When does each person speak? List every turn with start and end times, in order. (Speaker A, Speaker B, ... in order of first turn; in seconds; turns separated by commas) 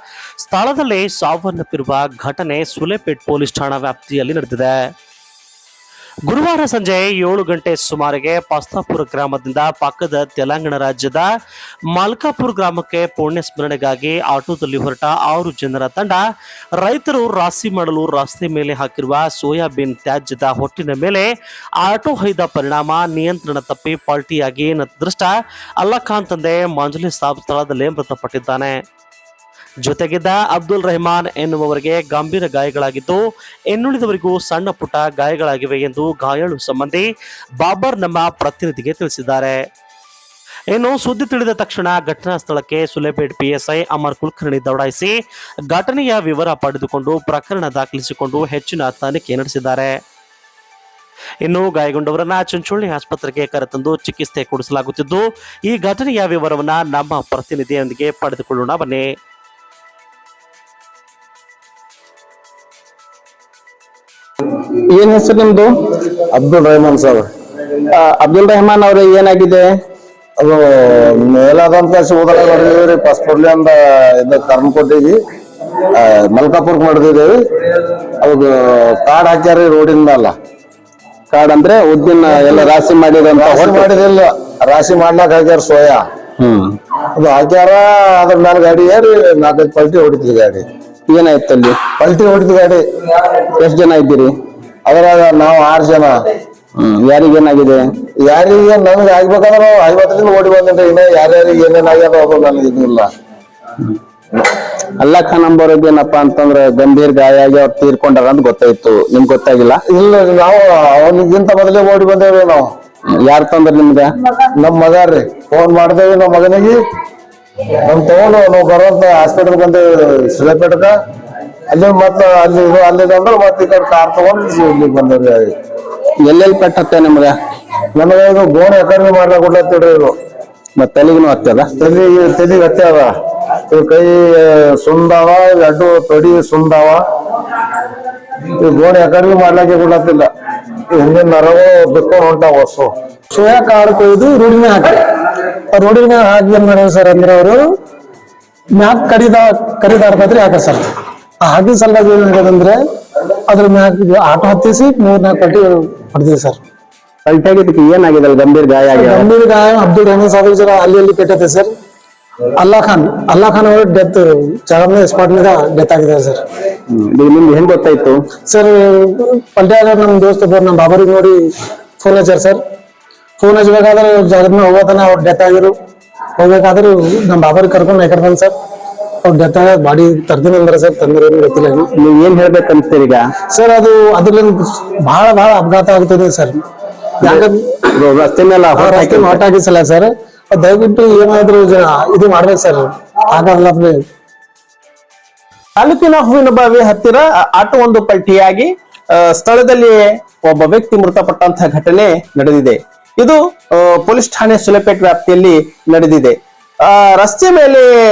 Speaker A: 0.4-4.8, Speaker A: 6.2-11.3, Speaker A: 11.9-16.2, Speaker A: 16.8-21.3, Speaker A: 21.8-28.8, Speaker A: 29.8-37.1, Speaker A: 37.6-39.7, Speaker A: 40.7-45.1, Speaker A: 45.7-50.0, Speaker A: 51.4-59.1, Speaker B: 64.9-65.7, Speaker C: 66.3-67.3, Speaker B: 67.9-69.7, Speaker C: 70.4-75.2, Speaker C: 75.9-77.3, Speaker C: 78.2-80.3, Speaker B: 81.3-83.8, Speaker C: 82.3-82.7, Speaker C: 83.3-86.0, Speaker B: 86.4-86.7, Speaker C: 87.1-90.7, Speaker B: 91.1-91.8, Speaker C: 92.0-92.8, Speaker B: 93.6-94.3, Speaker C: 94.9-96.2, Speaker B: 96.8-97.8, Speaker C: 98.2-103.1, Speaker B: 105.0-109.8, Speaker C: 109.9-112.7, Speaker B: 113.2-114.0, Speaker C: 114.5-116.8, Speaker C: 117.8-121.0, Speaker C: 121.7-125.5, Speaker B: 126.3-127.3, Speaker C: 128.0-130.1, Speaker B: 130.8-131.7, Speaker C: 131.8-133.1, Speaker C: 133.7-137.0, Speaker C: 138.6-140.3, Speaker C: 140.9-142.9, Speaker D: 143.3-145.0, Speaker D: 145.7-147.6, Speaker D: 148.7-150.8, Speaker D: 151.4-152.8, Speaker D: 153.5-156.6, Speaker B: 157.3-159.2, Speaker D: 158.8-161.7, Speaker D: 162.6-166.4, Speaker B: 166.9-168.2, Speaker D: 168.5-171.4, Speaker D: 172.0-172.6, Speaker D: 173.4-175.7, Speaker D: 176.4-178.5, Speaker D: 179.2-181.9, Speaker B: 182.0-183.2, Speaker D: 183.5-186.6, Speaker D: 187.2-187.7, Speaker B: 188.0-189.3, Speaker D: 188.7-194.0, Speaker E: 195.8-207.8